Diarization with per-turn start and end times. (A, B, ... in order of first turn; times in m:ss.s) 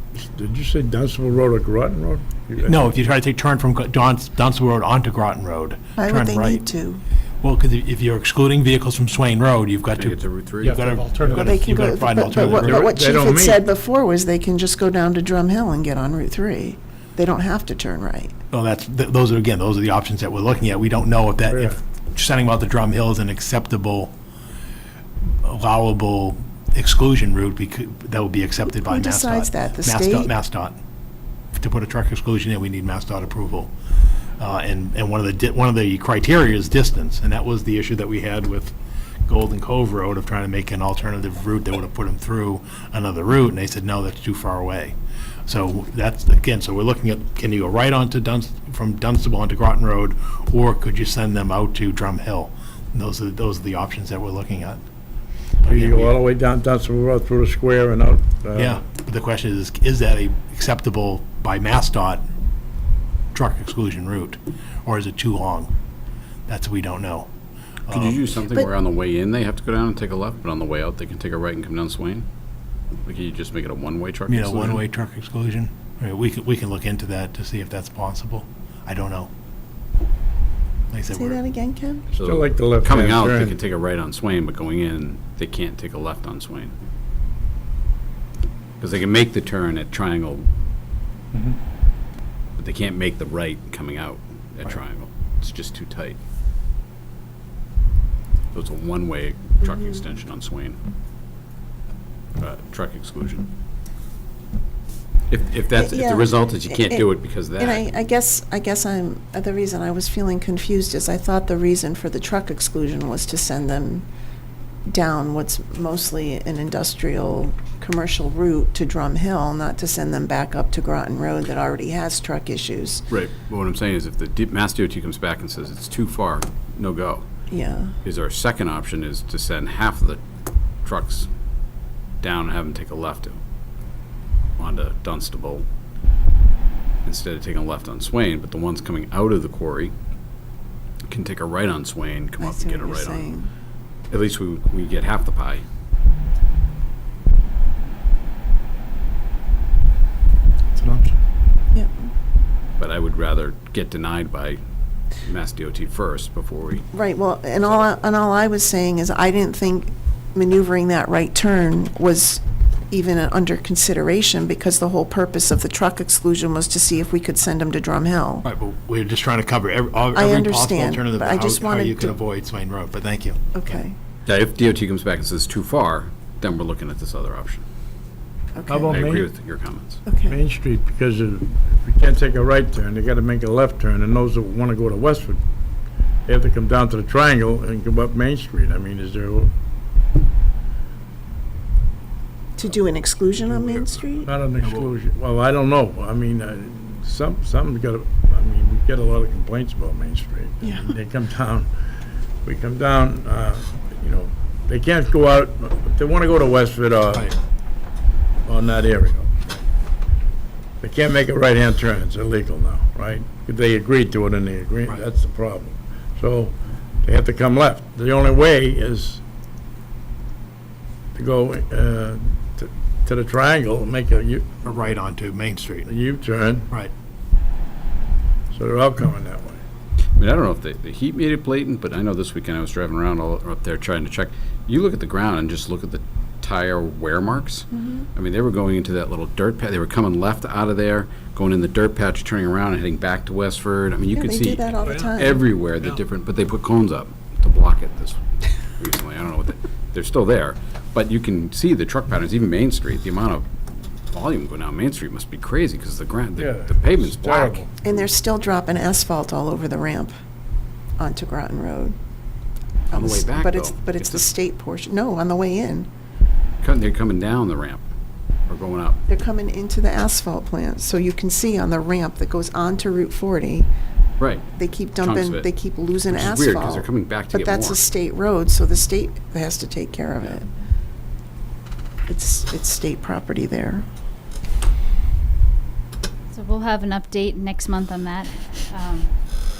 0:00.2-0:02.9 A
0:02.6-0:06.6 B
0:06.0-0:07.0 C
0:07.4-0:12.9 B
0:09.9-0:10.8 D
0:10.6-0:11.5 A
0:11.3-0:18.3 C
0:12.5-0:13.6 A
0:18.5-0:24.1 B
0:21.5-0:21.8 A
0:25.4-0:30.8 B
0:28.8-0:30.3 C
0:31.6-0:33.7 B
0:34.4-0:38.7 B
0:39.3-0:44.9 B
0:45.5-0:54.8 B
0:55.6-0:56.2 B
0:55.6-0:58.8 A
0:58.5-1:02.3 B
1:03.3-1:05.7 B
1:06.5-1:07.3 B
1:07.9-1:08.2 B
1:07.9-1:12.2 D
1:13.0-1:14.8 D
1:14.3-1:19.3 B
1:20.9-1:21.4 B
1:21.1-1:22.0 C
1:22.1-1:26.7 D
1:22.2-1:23.6 A
1:28.8-1:30.4 D
1:32.6-1:36.2 D
1:38.5-1:40.8 D
1:42.4-1:43.5 D
1:45.3-1:47.8 D
1:45.7-1:54.0 C
1:54.9-2:03.0 C
2:03.1-2:07.2 D
2:07.5-2:07.9 C
2:08.0-2:10.2 D
2:10.8-2:11.3 D
2:12.2-2:13.4 D
2:14.6-2:15.6 D
2:17.0-2:19.9 D
2:21.1-2:23.3 D
2:22.4-2:23.5 C
2:24.1-2:25.6 D
2:30.8-2:31.1 A
2:32.8-2:34.6 D
2:35.2-2:36.9 D
2:36.9-2:48.4 C
2:48.4-2:53.8 B
2:50.1-2:52.2 C
2:53.5-2:54.0 C
2:54.2-2:57.6 D
2:58.5-2:59.2 C
2:58.7-2:59.3 A
2:58.9-3:00.0 D
3:00.0-3:00.4 C
3:00.3-3:05.4 A
3:06.3-3:09.5 A
3:12.6-3:14.3 C
3:14.2-3:21.7 A
3:14.6-3:14.9 B
3:22.4-3:27.3 A
3:28.4-3:29.6 A
3:30.8-3:39.2 A
3:41.1-3:44.5 A
3:44.6-3:45.9 B
3:45.8-3:46.7 A
3:48.5-3:49.6 A
3:50.2-4:08.2 D
3:57.7-3:58.1 C
4:04.1-4:05.4 C
4:08.8-4:13.4 D
4:14.1-4:17.6 D
4:16.4-4:17.7 A
4:17.8-4:20.1 C
4:21.0-4:21.9 C
4:22.9-4:25.9 C
4:22.9-4:24.2 D
4:26.6-4:27.8 D
4:28.5-4:29.0 D
4:29.1-4:33.7 C
4:34.2-4:34.5 D
4:34.6-4:40.5 C
4:35.0-4:35.4 D
4:36.0-4:37.8 D
4:42.1-4:43.8 C
4:46.3-4:49.1 E